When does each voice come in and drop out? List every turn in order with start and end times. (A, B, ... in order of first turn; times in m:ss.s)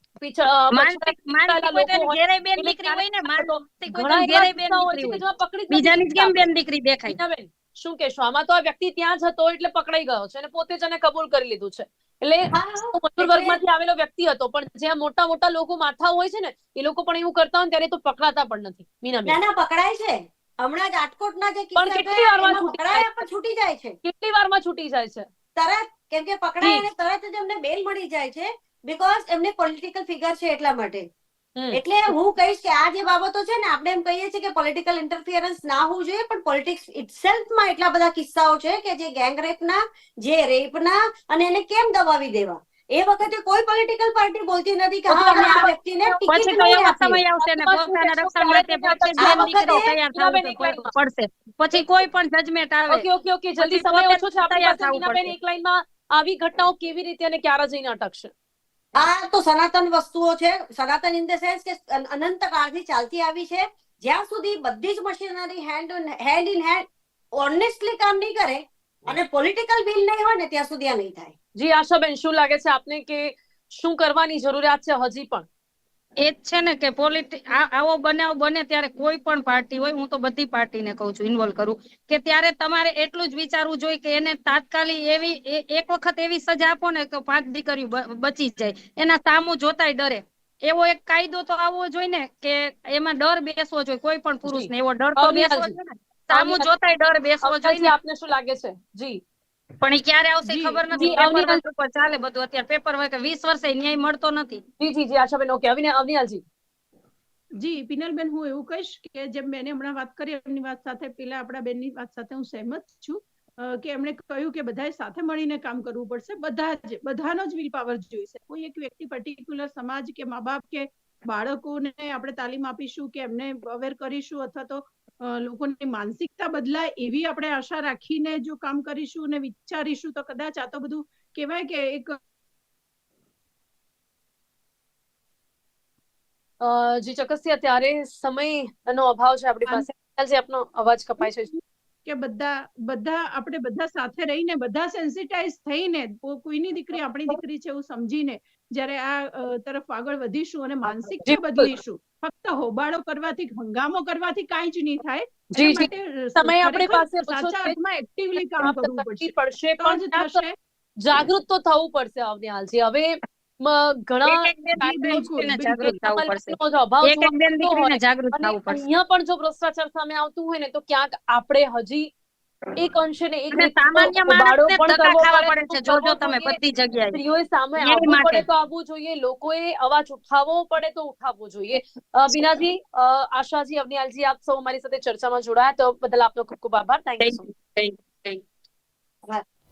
0:00.2-0:06.4 A
0:00.7-0:05.2 B
0:05.7-0:07.2 B
0:07.1-0:19.4 A
0:12.5-0:13.6 C
0:19.2-0:24.0 C
0:21.8-0:23.1 A
0:24.0-0:25.3 A
0:25.6-0:31.0 C
0:31.6-0:31.8 A
0:31.7-0:47.2 C
0:45.1-0:45.6 A
0:45.2-0:53.0 B
0:47.4-0:50.9 A
0:49.2-0:49.9 C
0:52.9-0:58.3 A
0:53.6-0:55.3 B
0:59.0-1:06.8 C
1:07.4-1:11.3 C
1:11.6-1:15.5 A
1:16.2-1:37.9 B
1:34.4-1:35.8 A
1:36.3-1:36.7 A
1:37.4-1:39.2 A
1:39.8-1:44.6 B
1:40.4-1:41.2 D
1:41.0-1:41.6 A
1:44.8-1:46.4 A
1:47.6-2:12.2 D
2:16.6-2:21.5 A
2:21.2-2:40.5 D
2:31.2-2:31.7 A
2:35.5-2:37.8 A
2:38.6-2:40.4 A
2:41.0-2:52.1 A
2:44.2-2:48.8 B
2:44.8-2:45.9 D
2:52.8-2:56.6 A
2:53.5-2:57.2 B
2:57.1-3:07.5 A
2:57.8-2:58.4 B
3:07.2-3:08.4 B